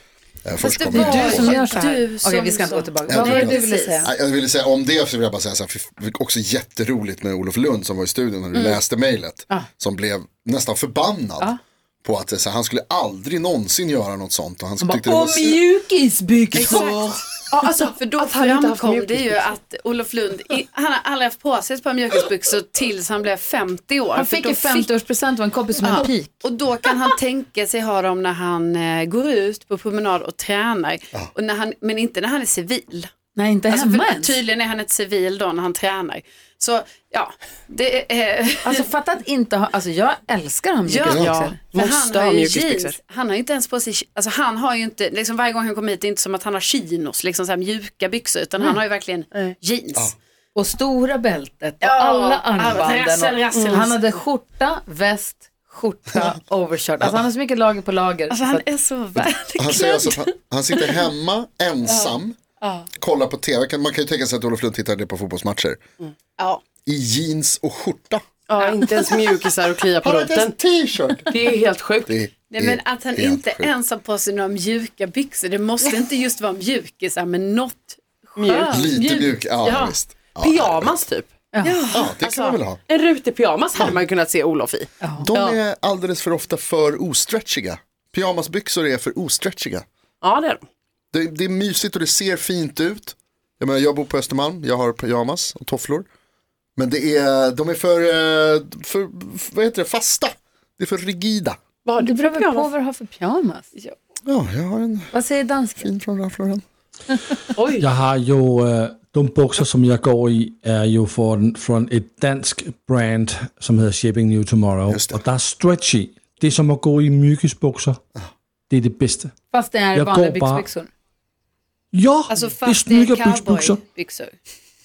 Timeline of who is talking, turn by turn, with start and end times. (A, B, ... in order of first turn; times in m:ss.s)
0:00.4-0:01.7 A
0:00.6-0:04.1 B
0:00.9-0:04.1 C
0:03.1-0:15.6 A
0:08.5-0:08.8 B
0:14.8-0:17.2 C
0:16.6-0:16.9 D
0:16.6-0:17.0 B
0:17.5-0:19.6 D
0:17.6-0:24.9 B
0:24.1-0:26.4 C
0:25.8-0:33.1 B
0:33.3-0:34.4 C
0:33.7-0:38.8 B
0:38.6-0:41.6 C
0:40.9-0:50.1 B
0:41.2-0:43.0 D
0:50.5-0:58.6 C
0:51.8-0:54.0 B
0:53.5-0:53.9 D
0:58.3-1:00.1 B
0:59.6-1:02.4 A
1:01.8-1:02.9 B
1:03.0-1:05.8 A
1:06.8-1:08.2 A
1:08.5-1:10.5 D
1:08.6-1:09.0 B
1:10.0-1:11.5 A
1:11.3-1:12.2 D
1:12.0-1:13.7 A
1:12.5-1:19.9 B
1:18.4-1:19.3 D
1:18.7-1:21.0 A
1:20.4-1:21.9 D
1:21.5-1:21.8 C
1:21.9-1:22.8 A
1:22.2-1:22.6 B
1:22.9-1:25.6 D
1:25.0-1:25.3 C
1:25.2-1:29.8 A
1:30.2-1:30.6 D
1:31.1-1:36.0 A
1:36.8-1:41.6 A
1:41.8-1:42.7 D
1:42.0-1:43.7 C
1:44.2-1:46.6 A
1:45.1-1:45.9 C
1:47.6-1:47.9 D
1:47.8-1:58.0 E
1:54.9-1:55.2 A
1:58.7-1:59.3 E
1:59.5-2:00.9 C
1:59.9-2:00.7 E
2:01.9-2:03.8 E
2:02.3-2:04.3 B